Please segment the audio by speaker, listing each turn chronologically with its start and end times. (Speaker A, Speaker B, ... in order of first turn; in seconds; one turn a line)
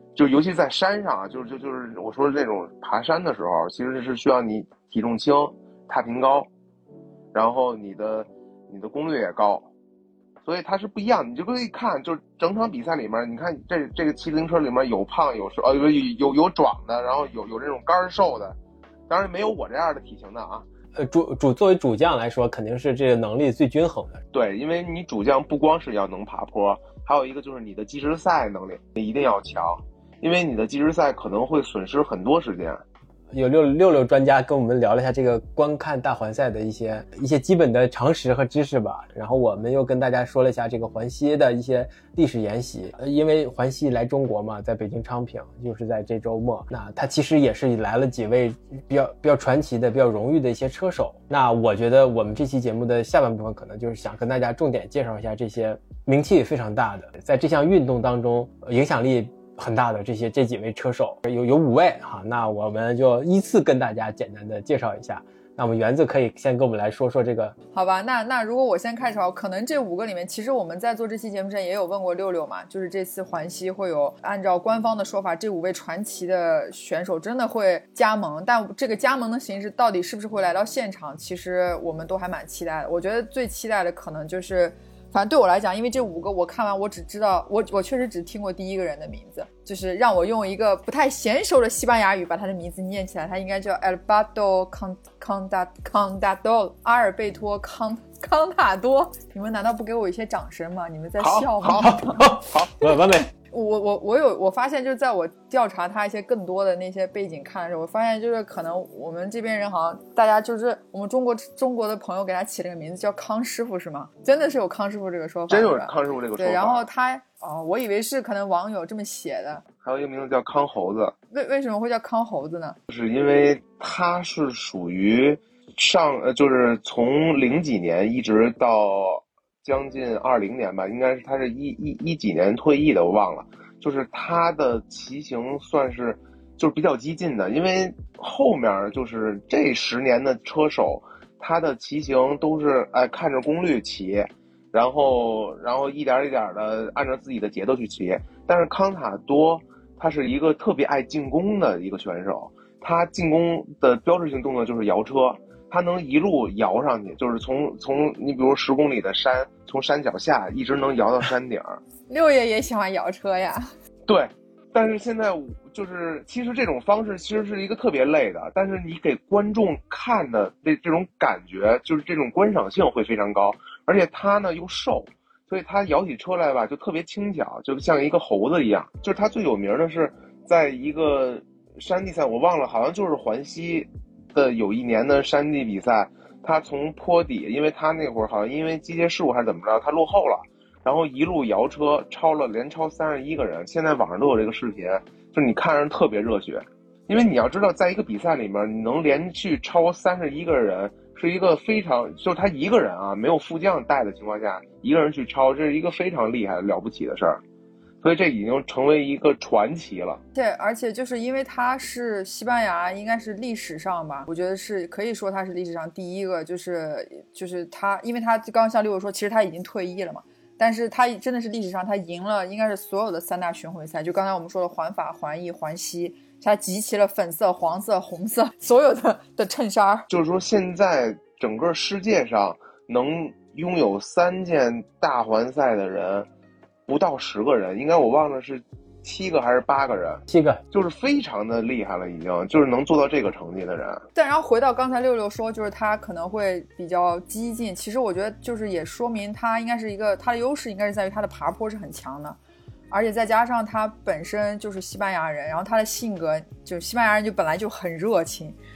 Speaker A: 0.2-6.5
Speaker A: 7.3-9.7
Speaker A: 10.4-18.6
Speaker A: 19.1-20.6
Speaker B: 21.0-24.2
Speaker A: 24.3-32.8
Speaker B: 33.3-67.5
Speaker C: 67.7-102.3
Speaker A: 101.2-102.8
Speaker B: 101.8-103.3
Speaker C: 103.5-119.6
Speaker A: 115.5-116.9
Speaker A: 119.8-121.2
Speaker C: 121.3-122.8
Speaker A: 122.9-161.8
Speaker C: 162.1-163.7
Speaker A: 164.1-207.4
Speaker A: 208.0-210.2
Speaker C: 210.3-230.1
Speaker A: 230.1-236.3
Speaker A: 236.9-244.1
Speaker B: 240.3-240.6
Speaker C: 244.2-252.4
Speaker C: 252.9-258.6